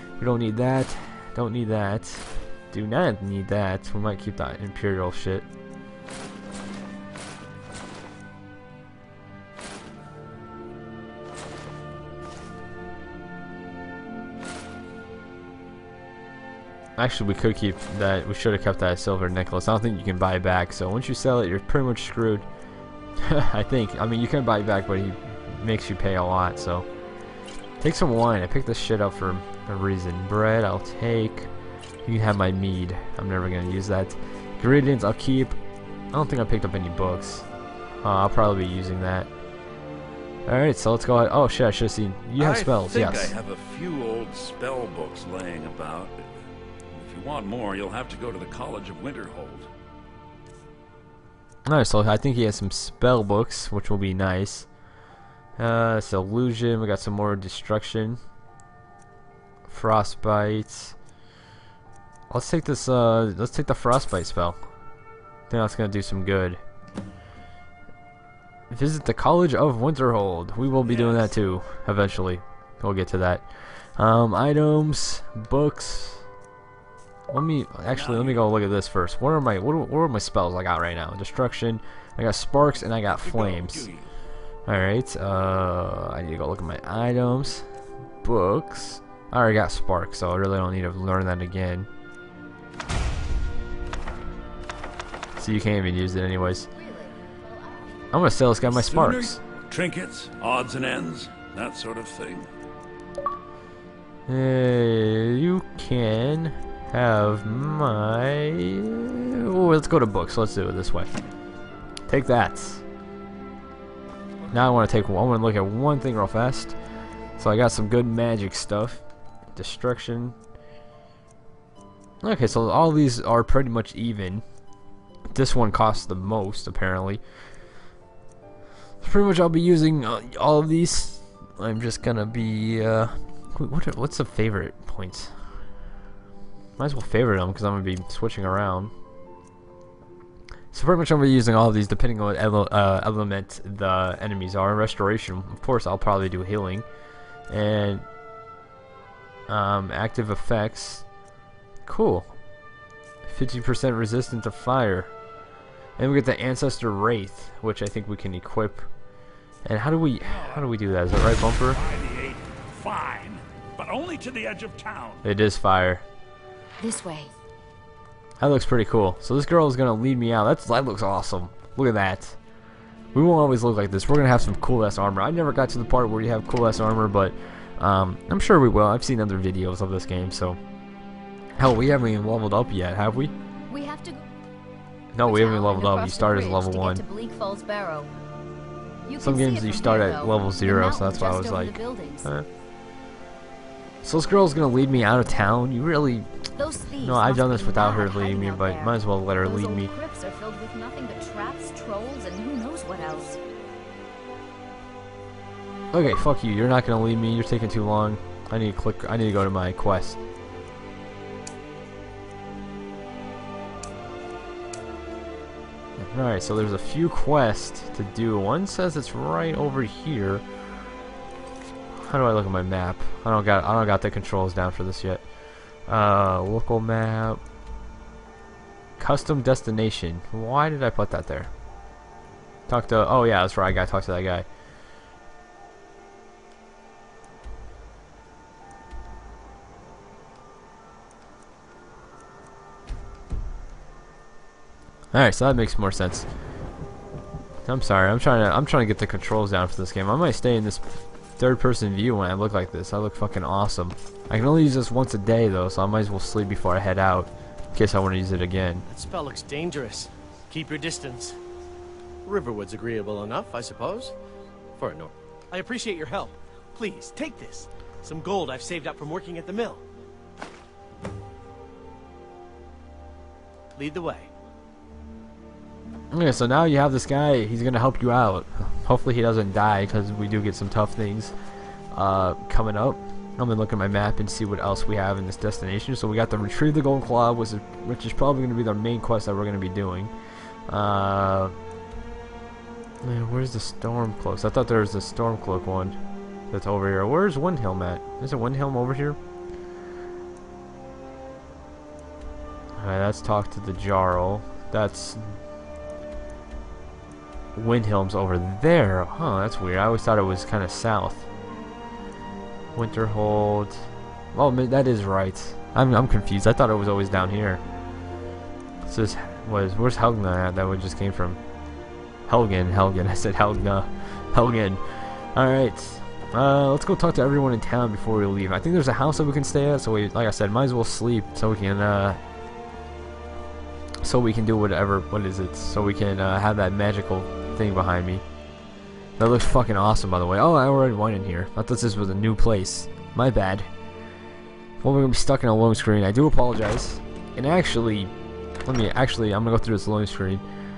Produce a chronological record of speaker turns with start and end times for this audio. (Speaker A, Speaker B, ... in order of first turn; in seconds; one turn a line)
Speaker A: 0.2-5.5
Speaker A: 17.0-22.4
Speaker A: 23.2-26.9
Speaker A: 27.8-31.5
Speaker A: 32.0-35.6
Speaker A: 36.1-37.5
Speaker A: 38.0-39.3
Speaker A: 40.5-43.3
Speaker B: 42.4-46.2
Speaker B: 46.9-49.7
Speaker A: 51.6-54.7
Speaker A: 55.6-58.2
Speaker A: 59.7-61.0
Speaker A: 62.3-64.6
Speaker A: 65.5-66.6
Speaker A: 68.7-76.2
Speaker B: 70.8-71.3
Speaker A: 77.3-83.9
Speaker B: 77.9-78.5
Speaker B: 82.9-84.1
Speaker A: 84.7-87.7
Speaker A: 88.2-91.9
Speaker A: 95.4-96.7
Speaker C: 96.7-98.1
Speaker A: 98.1-99.4
Speaker B: 98.7-102.5
Speaker A: 104.3-111.1
Speaker A: 112.1-112.8
Speaker A: 114.5-116.8
Speaker A: 117.4-119.0
Speaker A: 119.5-120.3
Speaker A: 122.2-124.4
Speaker A: 125.3-127.2
Speaker A: 129.0-135.3
Speaker A: 136.8-138.9
Speaker A: 140.7-146.8
Speaker A: 147.5-148.0
Speaker A: 149.5-151.1
Speaker A: 151.8-152.3
Speaker A: 153.2-155.1
Speaker A: 156.0-158.8
Speaker A: 159.7-161.8
Speaker B: 160.2-165.2
Speaker A: 165.2-166.0
Speaker C: 166.8-167.3
Speaker A: 168.4-172.4
Speaker A: 173.1-180.6
Speaker A: 181.6-183.3
Speaker C: 183.7-184.2
Speaker A: 185.1-187.0
Speaker C: 185.2-188.1
Speaker C: 189.0-192.3
Speaker A: 189.2-192.5
Speaker A: 194.0-196.3
Speaker C: 196.5-203.4
Speaker A: 197.0-199.9
Speaker A: 205.9-210.2
Speaker A: 216.0-220.4
Speaker A: 221.9-225.2
Speaker A: 225.9-227.4
Speaker A: 229.0-231.5
Speaker A: 232.7-234.4
Speaker A: 245.1-246.3
Speaker A: 247.7-258.8
Speaker D: 258.9-261.4
Speaker D: 262.2-264.1
Speaker D: 264.8-269.8
Speaker D: 273.8-274.3
Speaker A: 276.1-281.3
Speaker A: 281.9-290.1
Speaker A: 290.7-291.5
Speaker A: 293.0-295.9
Speaker A: 296.5-299.2
Speaker A: 302.8-305.4
Speaker A: 307.5-311.3
Speaker A: 312.7-317.6
Speaker A: 318.8-321.4
Speaker A: 322.3-332.2
Speaker A: 334.0-338.2
Speaker A: 339.2-343.7
Speaker A: 344.8-348.1
Speaker A: 348.6-350.4